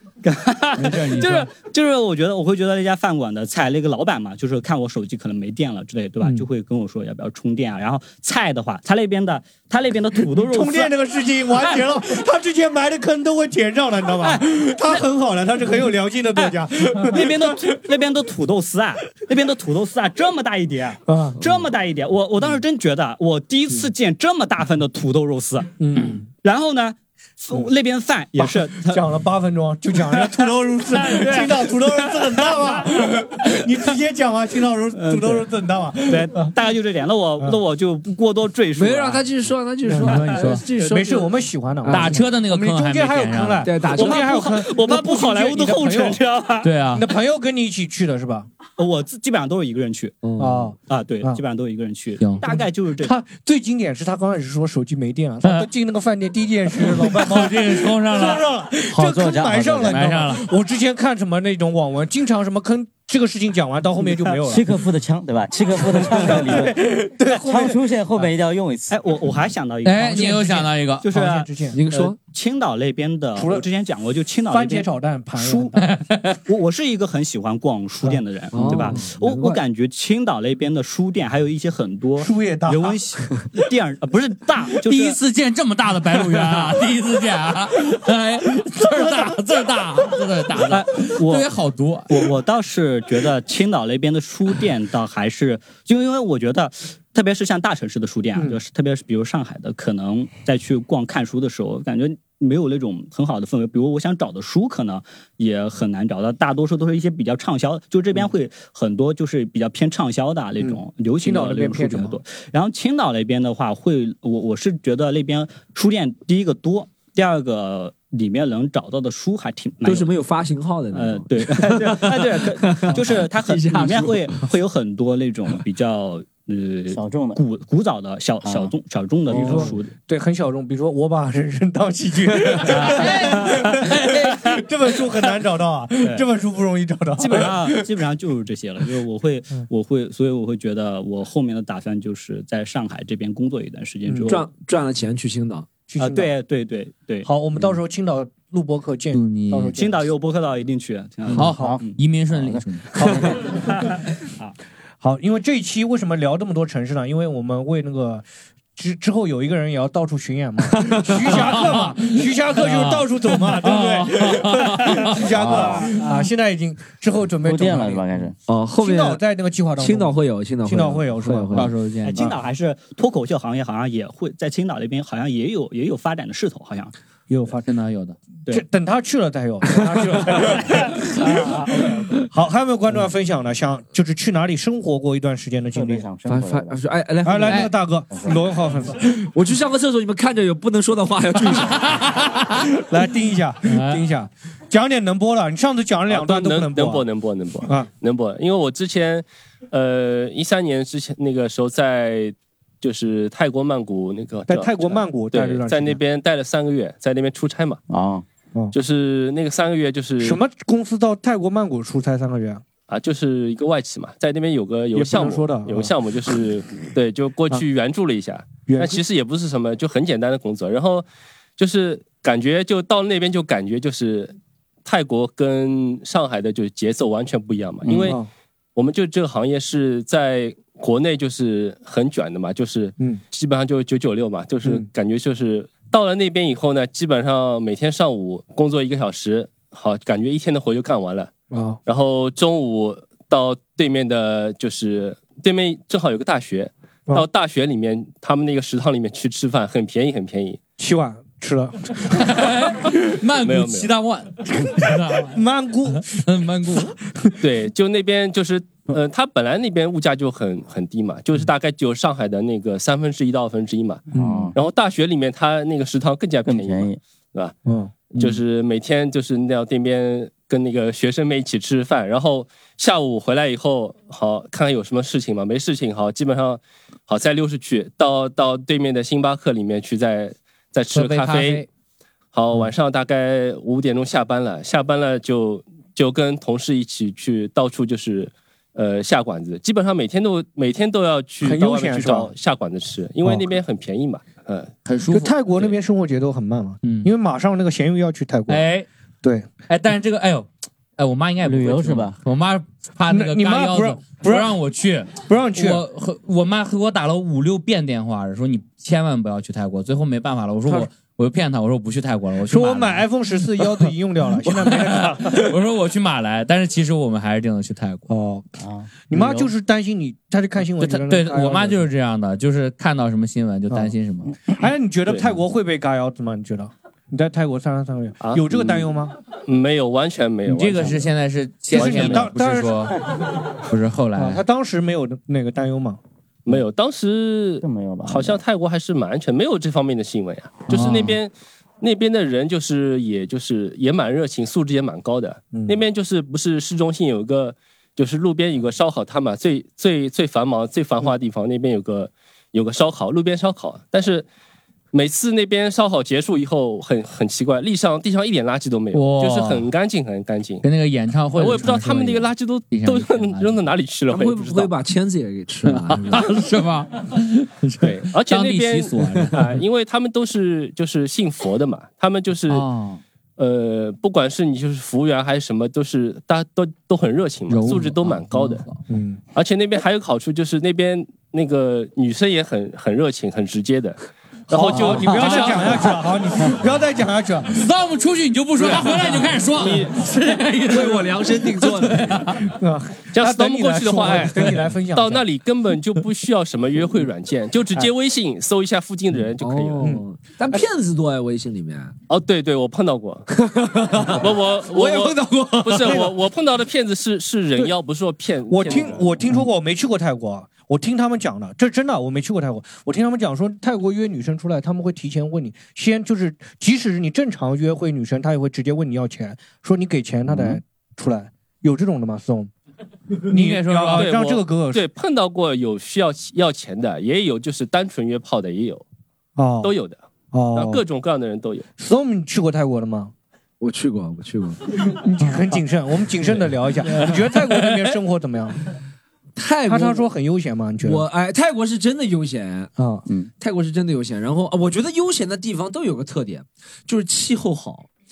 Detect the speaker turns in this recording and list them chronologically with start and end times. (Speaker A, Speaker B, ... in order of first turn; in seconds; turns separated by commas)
Speaker A: 0.2-10.9, Speaker B: 0.8-1.5, Speaker C: 6.2-6.5, Speaker C: 10.3-17.8, Speaker A: 14.2-15.0, Speaker A: 16.4-25.7, Speaker C: 21.1-21.4, Speaker C: 25.8-26.3, Speaker A: 26.4-29.0, Speaker C: 28.4-36.5, Speaker A: 30.0-33.1, Speaker A: 35.0-35.4, Speaker A: 36.1-39.2, Speaker D: 38.8-41.3, Speaker C: 39.9-46.2, Speaker B: 40.3-40.6, Speaker D: 41.9-42.2, Speaker B: 41.9-43.7, Speaker D: 43.6-44.4, Speaker A: 43.9-46.8, Speaker B: 46.6-47.1, Speaker C: 46.9-48.5, Speaker A: 48.8-50.2, Speaker D: 50.2-50.7, Speaker C: 50.4-51.4, Speaker A: 50.9-53.1, Speaker B: 52.2-52.5, Speaker C: 52.6-64.7, Speaker B: 56.8-58.4, Speaker E: 58.9-60.0, Speaker B: 59.9-60.5, Speaker E: 64.4-66.8, Speaker C: 65.8-67.8, Speaker E: 67.4-68.9, Speaker A: 68.9-75.8, Speaker B: 69.8-71.1, Speaker C: 70.0-71.8, Speaker D: 71.7-72.2, Speaker C: 73.3-73.7, Speaker C: 74.5-75.8, Speaker B: 75.8-76.4, Speaker A: 76.5-85.2, Speaker C: 78.0-79.1, Speaker D: 78.5-79.6, Speaker C: 82.2-83.0, Speaker B: 84.8-92.3, Speaker C: 88.9-89.2, Speaker A: 90.7-91.5, Speaker A: 92.1-120.1, Speaker C: 110.6-112.2, Speaker D: 119.8-124.5, Speaker A: 120.9-129.9, Speaker E: 126.9-127.4, Speaker E: 128.4-128.7, Speaker D: 129.3-129.8, Speaker C: 129.3-137.9, Speaker A: 132.6-134.7, Speaker A: 137.2-144.5, Speaker C: 144.1-144.3, Speaker D: 144.3-145.7, Speaker C: 145.9-146.3, Speaker A: 146.0-147.3, Speaker C: 147.2-150.1, Speaker B: 149.1-149.8, Speaker A: 149.8-152.0, Speaker B: 151.3-153.2, Speaker C: 151.3-151.8, Speaker E: 151.5-153.3, Speaker A: 153.0-154.6, Speaker C: 153.0-153.4, Speaker C: 155.0-158.2, Speaker C: 158.8-168.1, Speaker D: 160.7-161.1, Speaker B: 161.3-165.4, Speaker E: 165.4-165.8, Speaker E: 167.4-168.4, Speaker D: 168.5-169.2, Speaker C: 168.8-172.4, Speaker D: 169.8-171.7, Speaker B: 171.5-172.3, Speaker A: 172.0-176.9, Speaker C: 177.3-177.7, Speaker B: 177.6-178.2, Speaker C: 178.5-186.1, Speaker A: 181.3-181.9, Speaker E: 185.8-186.8, Speaker D: 186.3-187.7, Speaker C: 187.2-189.0, Speaker B: 187.4-187.7, Speaker E: 188.1-188.4, Speaker D: 189.1-191.8, Speaker B: 191.7-192.7, Speaker C: 192.8-197.1, Speaker B: 193.7-194.1, Speaker F: 196.1-207.8, Speaker C: 197.6-197.9, Speaker C: 204.5-206.0, Speaker E: 207.9-208.2, Speaker F: 208.7-210.4, Speaker C: 210.2-212.6, Speaker F: 212.9-221.1, Speaker C: 214.9-215.9, Speaker C: 218.7-219.0, Speaker F: 221.6-228.2, Speaker C: 227.9-228.3, Speaker F: 228.8-241.3, Speaker C: 241.5-241.8, Speaker F: 241.9-250.6, Speaker C: 250.8-252.1, Speaker B: 252.1-255.4, Speaker F: 253.4-253.9, Speaker C: 255.3-256.1, Speaker B: 256.1-257.0, Speaker F: 257.4-267.5, Speaker C: 264.1-264.5, Speaker E: 264.1-264.6, Speaker E: 266.4-267.0, Speaker C: 267.7-267.9, Speaker B: 268.1-268.4, Speaker F: 268.2-281.6, Speaker B: 280.9-281.7, Speaker F: 282.3-294.7, Speaker C: 291.4-292.3, Speaker C: 293.2-293.5, Speaker B: 294.9-295.3, Speaker C: 295.1-298.6, Speaker B: 296.8-297.1, Speaker B: 298.5-298.9, Speaker C: 299.2-299.5, Speaker B: 299.7-313.1, Speaker E: 301.4-302.2, Speaker C: 303.1-304.6, Speaker C: 305.2-305.8, Speaker C: 312.5-315.5, Speaker B: 314.6-318.1, Speaker C: 318.1-321.9, Speaker E: 318.6-319.5, Speaker B: 320.8-324.3, Speaker C: 323.7-323.9, Speaker C: 324.5-329.1, Speaker F: 325.1-325.4, Speaker F: 328.2-328.9, Speaker F: 329.5-331.1, Speaker B: 330.5-333.0, Speaker C: 331.7-333.0, Speaker F: 331.8-332.3, Speaker B: 333.7-334.4, Speaker C: 334.1-336.0, Speaker F: 336.5-354.3, Speaker E: 337.6-338.4, Speaker B: 340.7-341.2, Speaker C: 345.5-345.8, Speaker F: 354.9-360.6, Speaker B: 358.9-359.7, Speaker B: 360.6-363.7, Speaker F: 361.4-364.7, Speaker D: 364.1-366.2, Speaker B: 365.6-369.6, Speaker F: 367.8-372.7, Speaker B: 372.5-373.0, Speaker F: 373.4-378.6, Speaker B: 377.5-378.8, Speaker C: 378.9-379.2, Speaker F: 379.4-385.9, Speaker C: 384.5-387.6, Speaker B: 384.7-385.7, Speaker B: 387.5-392.5, Speaker D: 389.6-389.9, Speaker D: 390.7-392.2, Speaker C: 392.6-395.2, Speaker F: 393.1-399.9, Speaker D: 399.4-401.9, Speaker C: 399.8-400.6, Speaker F: 402.1-403.3, Speaker D: 403.3-406.1, Speaker F: 404.2-409.1, Speaker C: 408.5-422.5, Speaker B: 423.3-424.1, Speaker C: 423.3-424.8, Speaker F: 423.9-428.8, Speaker C: 429.4-429.7, Speaker F: 429.6-430.0, Speaker C: 430.3-430.8, Speaker F: 430.5-431.7, Speaker C: 431.8-433.1, Speaker D: 433.6-434.6, Speaker C: 434.9-438.6, Speaker B: 437.6-437.9, Speaker D: 439.4-440.1, Speaker C: 439.7-441.1, Speaker D: 440.8-442.7, Speaker C: 442.8-443.1, Speaker D: 443.4-447.9